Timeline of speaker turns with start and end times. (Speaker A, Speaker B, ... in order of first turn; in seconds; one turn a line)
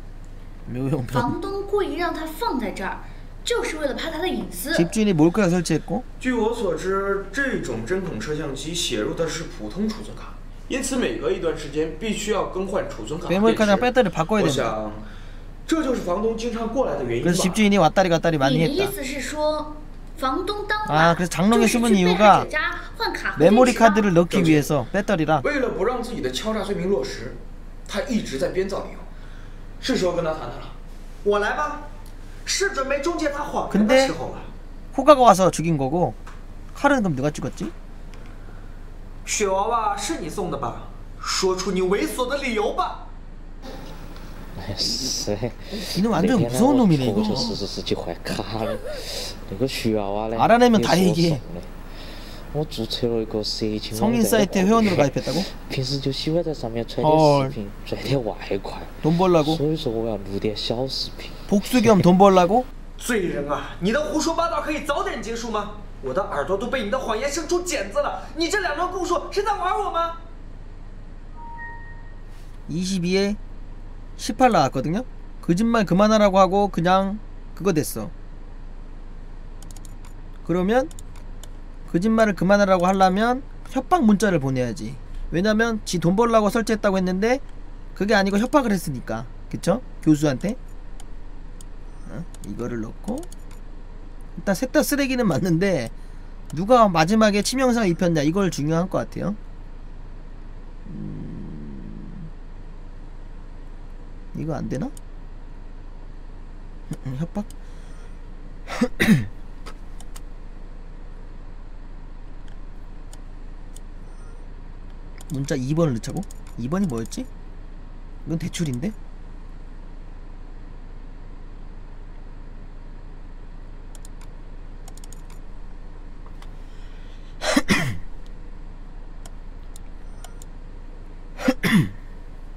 Speaker A: 0.7-1.4
Speaker B: 1.1-4.9
Speaker A: 4.7-6.0
Speaker C: 6.2-15.1
Speaker A: 13.3-14.7
Speaker C: 15.7-17.6
Speaker A: 17.2-18.9
Speaker B: 18.4-24.1
Speaker A: 20.9-22.5
Speaker A: 23.4-25.4
Speaker C: 24.3-24.7
Speaker C: 25.4-29.1
Speaker C: 29.8-30.8
Speaker D: 31.2-31.9
Speaker D: 32.5-34.5
Speaker A: 33.7-34.1
Speaker A: 34.9-36.2
Speaker A: 36.7-37.7
Speaker D: 39.2-43.0
Speaker E: 44.6-62.0
Speaker A: 45.9-47.6
Speaker A: 50.4-51.4
Speaker A: 53.9-55.5
Speaker A: 57.0-57.6
Speaker A: 59.0-59.6
Speaker A: 61.5-62.7
Speaker D: 63.0-70.2
Speaker A: 72.7-73.4
Speaker A: 74.2-78.1
Speaker A: 80.5-80.9
Speaker A: 81.9-87.4
Speaker A: 88.0-90.6
Speaker A: 92.1-93.3
Speaker A: 94.3-95.9
Speaker A: 96.5-99.4
Speaker A: 100.9-102.2
Speaker A: 104.3-104.9
Speaker A: 106.9-107.5
Speaker A: 108.7-109.3
Speaker A: 115.3-117.3
Speaker A: 118.2-119.0